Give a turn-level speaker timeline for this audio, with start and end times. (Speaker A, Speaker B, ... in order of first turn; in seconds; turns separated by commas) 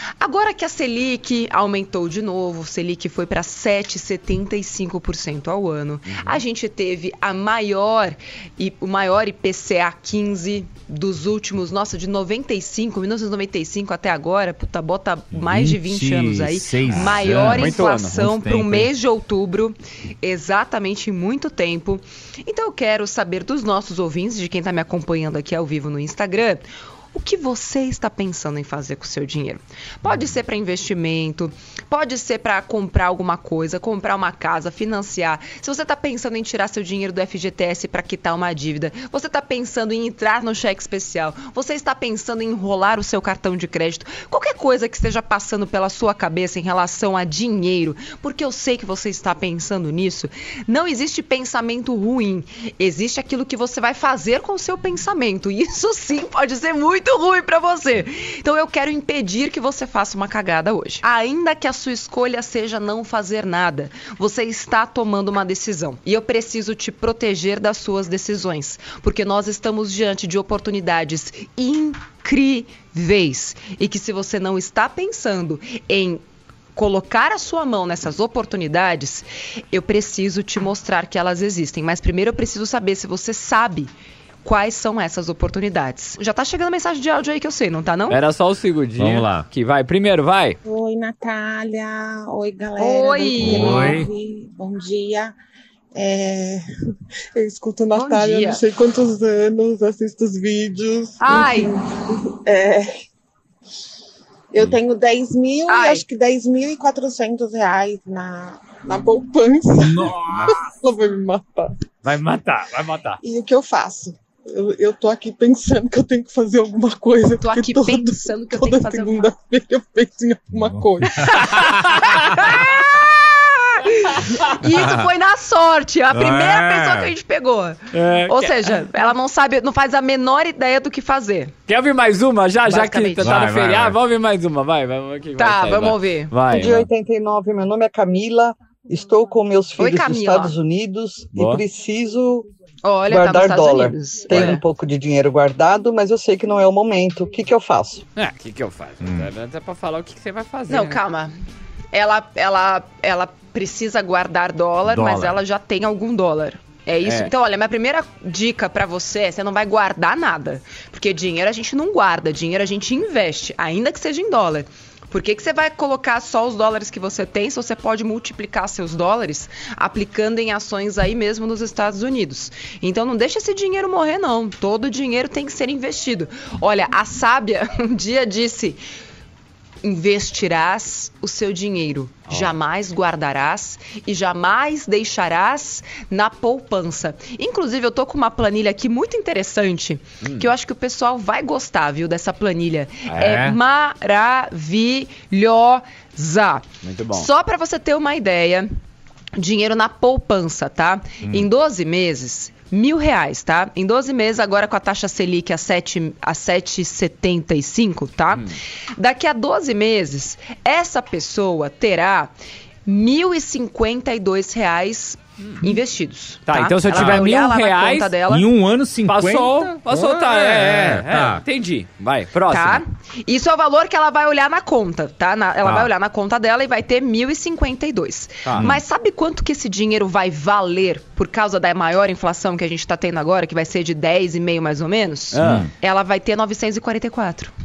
Speaker A: 0.2-76.2, Speaker B: 6.1-6.4, Speaker C: 15.3-18.9, Speaker B: 17.1-18.3, Speaker A: 76.8-83.9, Speaker A: 84.4-88.2, Speaker B: 88.1-90.6, Speaker C: 89.0-89.5, Speaker D: 90.7-95.3, Speaker A: 92.8-94.0, Speaker C: 93.4-94.1, Speaker D: 96.0-96.6, Speaker D: 97.4-102.9, Speaker A: 98.0-98.6, Speaker A: 101.2-101.7, Speaker D: 104.5-111.7, Speaker A: 105.7-106.1, Speaker B: 112.0-113.2, Speaker D: 113.2-121.2, Speaker A: 117.4-119.3, Speaker C: 120.5-122.1, Speaker A: 121.2-131.5, Speaker B: 121.3-122.2, Speaker C: 124.6-125.0, Speaker C: 126.1-127.1, Speaker B: 127.9-128.8, Speaker B: 131.7-136.9, Speaker A: 132.7-133.4, Speaker C: 133.2-134.0, Speaker A: 135.4-136.3, Speaker E: 136.5-142.5, Speaker A: 139.8-140.5, Speaker B: 141.3-141.6, Speaker A: 142.8-144.6, Speaker E: 143.1-148.0, Speaker B: 148.2-151.0, Speaker C: 149.0-149.3, Speaker A: 150.7-151.3, Speaker A: 151.9-178.8, Speaker C: 154.9-155.4, Speaker B: 157.1-157.3, Speaker A: 179.8-198.7, Speaker B: 190.2-190.5, Speaker B: 193.1-193.5, Speaker C: 193.2-193.6, Speaker B: 196.8-197.3, Speaker A: 199.4-212.3, Speaker A: 212.9-218.5, Speaker B: 216.5-218.1, Speaker C: 216.9-217.2, Speaker C: 218.3-221.4, Speaker B: 219.1-222.8, Speaker A: 222.5-237.5, Speaker C: 225.6-225.9, Speaker B: 228.4-228.7, Speaker B: 235.3-235.7, Speaker C: 235.4-235.7